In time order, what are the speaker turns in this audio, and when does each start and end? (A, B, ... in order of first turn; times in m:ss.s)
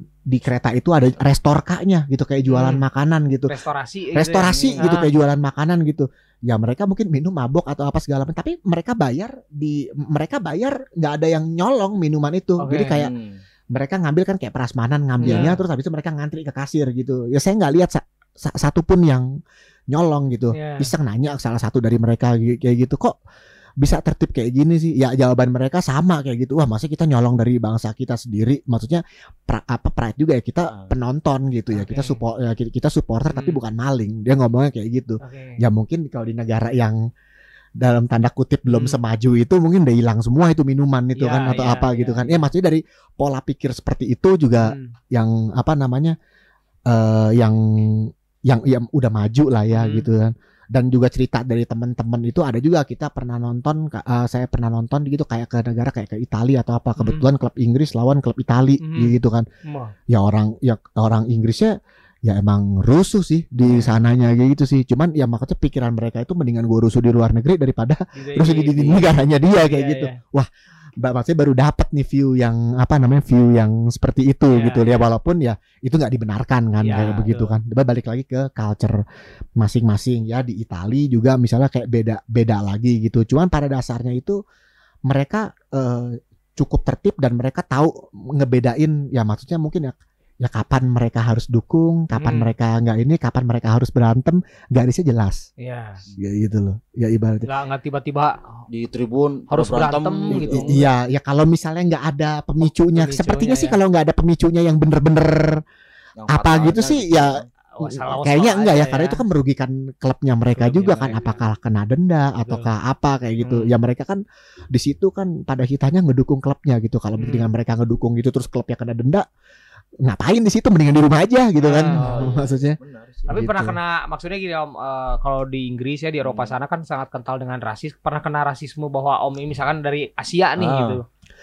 0:00.3-0:03.5 A
0:02.5-0:02.8 B
0:03.5-0:05.1 B
0:04.1-0:13.1 A
0:04.4-0:04.8 C
0:12.6-0:13.0 B
0:12.9-0:13.4 C
0:13.7-0:19.2 A
0:15.2-0:15.5 B
0:15.2-0:15.6 C
0:19.9-0:23.2 A
0:20.5-0:20.9 B
0:23.8-0:37.0 A
0:31.7-0:32.2 B
0:33.3-0:33.6 B
0:35.2-0:35.6 B
0:37.8-0:46.1 A
0:38.7-0:39.0 B
0:41.2-0:42.4 B
0:44.6-0:44.9 B
0:46.9-0:59.4 A
0:49.7-0:50.0 B
0:57.0-0:57.2 B
0:58.8-0:59.1 B
0:59.6-0:59.9 B
1:00.1-1:01.7 A
1:02.2-1:10.5 A
1:03.6-1:03.9 B
1:08.2-1:10.1 B
1:11.0-1:19.0 A
1:14.5-1:15.1 B
1:16.8-1:17.6 B
1:19.6-1:24.4 A
1:25.1-1:35.5 A
1:32.2-1:32.5 B
1:35.6-1:36.0 B
1:36.2-1:37.5 A
1:37.4-1:38.6 B
1:38.7-1:40.8 C
1:39.5-1:40.8 B
1:40.3-1:45.6 A
1:42.8-1:43.8 B
1:46.2-1:47.4 C
1:46.3-1:54.2 A
1:47.7-1:49.2 B
1:50.6-1:51.4 B
1:52.4-1:52.7 B
1:53.4-1:53.8 B
1:54.7-1:59.2 A
1:57.2-1:57.5 B
2:00.0-2:02.8 A
2:01.6-2:02.4 B
2:01.9-2:03.3 C
2:03.3-2:11.0 B
2:03.3-2:03.8 A
2:06.2-2:06.5 C
2:10.6-2:11.0 C